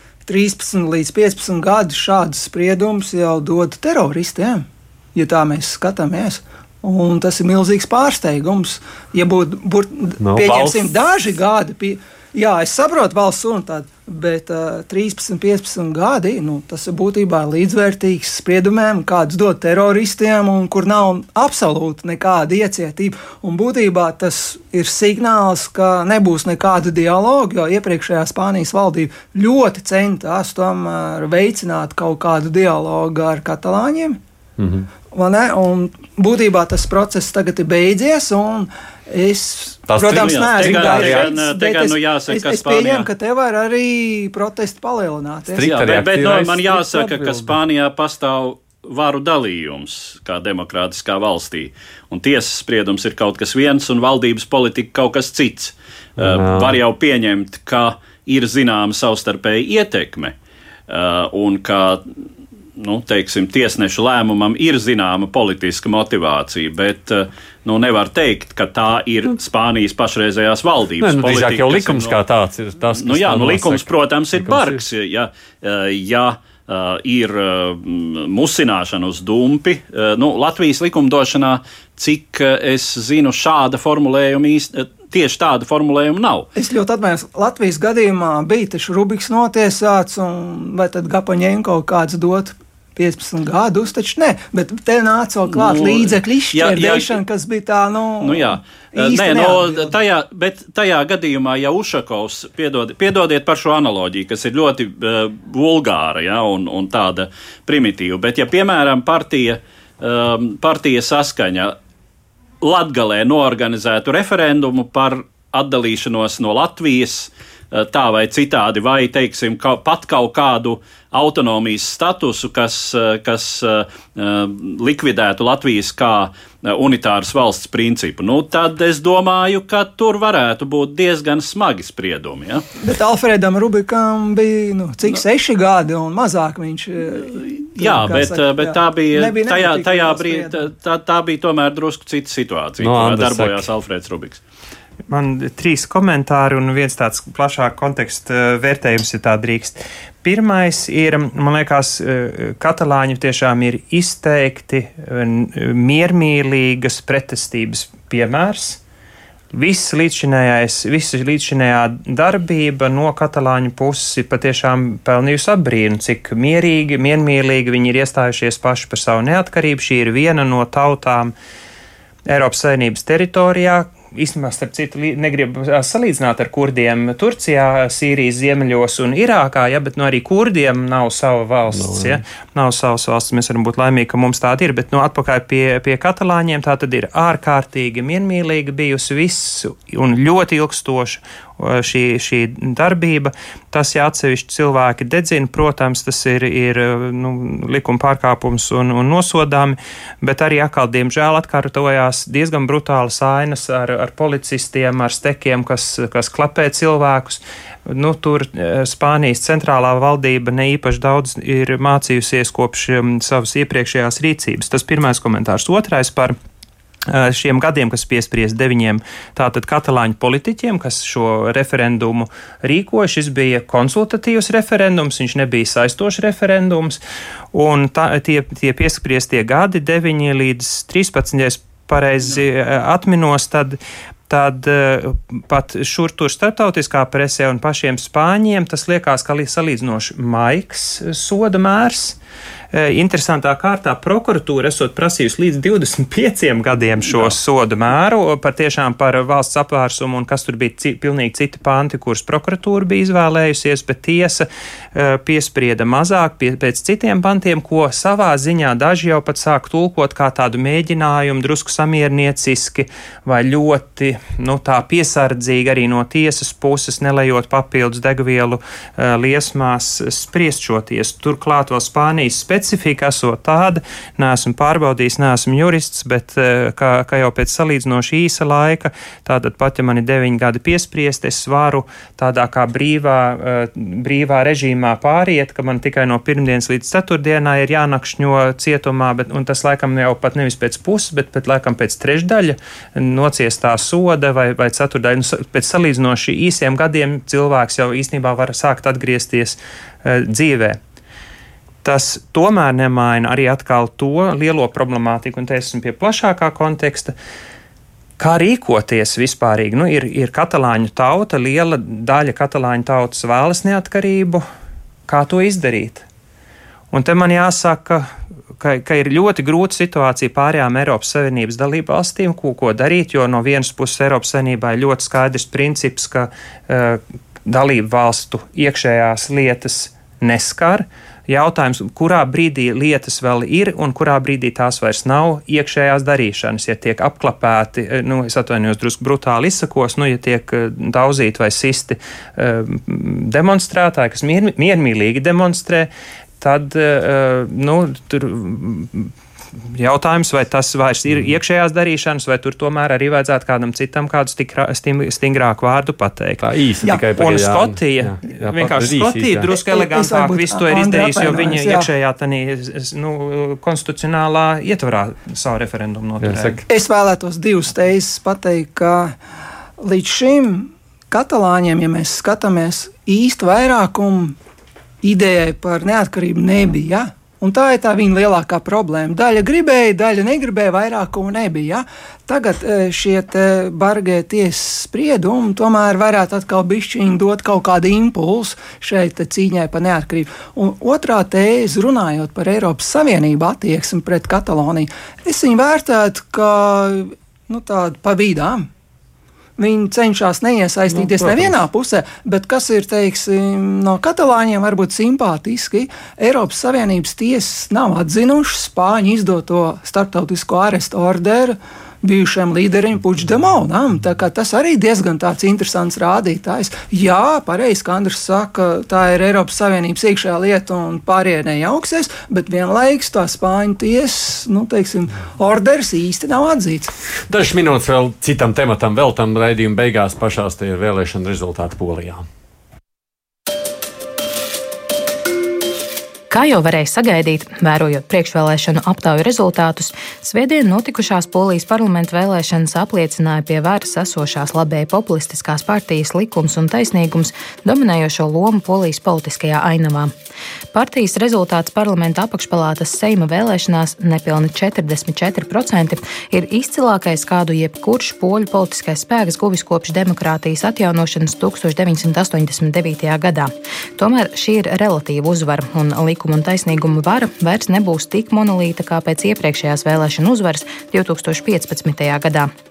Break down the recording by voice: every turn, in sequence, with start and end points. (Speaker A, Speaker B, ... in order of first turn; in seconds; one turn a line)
Speaker A: 0.3-34.2
Speaker B: 10.2-10.9
Speaker B: 34.6-34.9
Speaker A: 35.1-45.7
Speaker B: 39.9-41.3
Speaker C: 40.1-43.1
Speaker B: 45.5-47.6
Speaker C: 45.6-60.4
Speaker B: 56.2-56.8
Speaker C: 60.9-62.1
Speaker C: 62.8-72.2
Speaker B: 71.0-74.8
Speaker C: 73.0-86.5
Speaker A: 86.6-99.9
Speaker C: 95.5-97.2
Speaker C: 98.2-111.8
Speaker C: 112.6-132.7
Speaker A: 132.8-140.6
Speaker C: 137.8-144.4
Speaker B: 142.8-143.7
Speaker D: 145.1-158.8
Speaker D: 159.5-171.3
Speaker D: 172.3-216.3
Speaker B: 181.7-182.2
Speaker D: 217.1-227.0
Speaker D: 227.5-242.2
Speaker D: 242.7-300.8
Speaker D: 301.8-307.1
Speaker D: 308.2-314.4
Speaker D: 315.1-316.1
Speaker D: 316.9-349.1
Speaker D: 349.8-356.5
Speaker B: 356.4-359.5
Speaker D: 357.2-366.6
Speaker A: 359.5-361.9
Speaker B: 366.2-366.6
Speaker A: 366.7-369.1
Speaker A: 369.8-374.4
Speaker A: 375.0-398.7
Speaker A: 399.6-426.9
Speaker B: 400.9-401.6
Speaker B: 427.3-432.2
Speaker E: 436.3-450.1
Speaker E: 450.7-472.5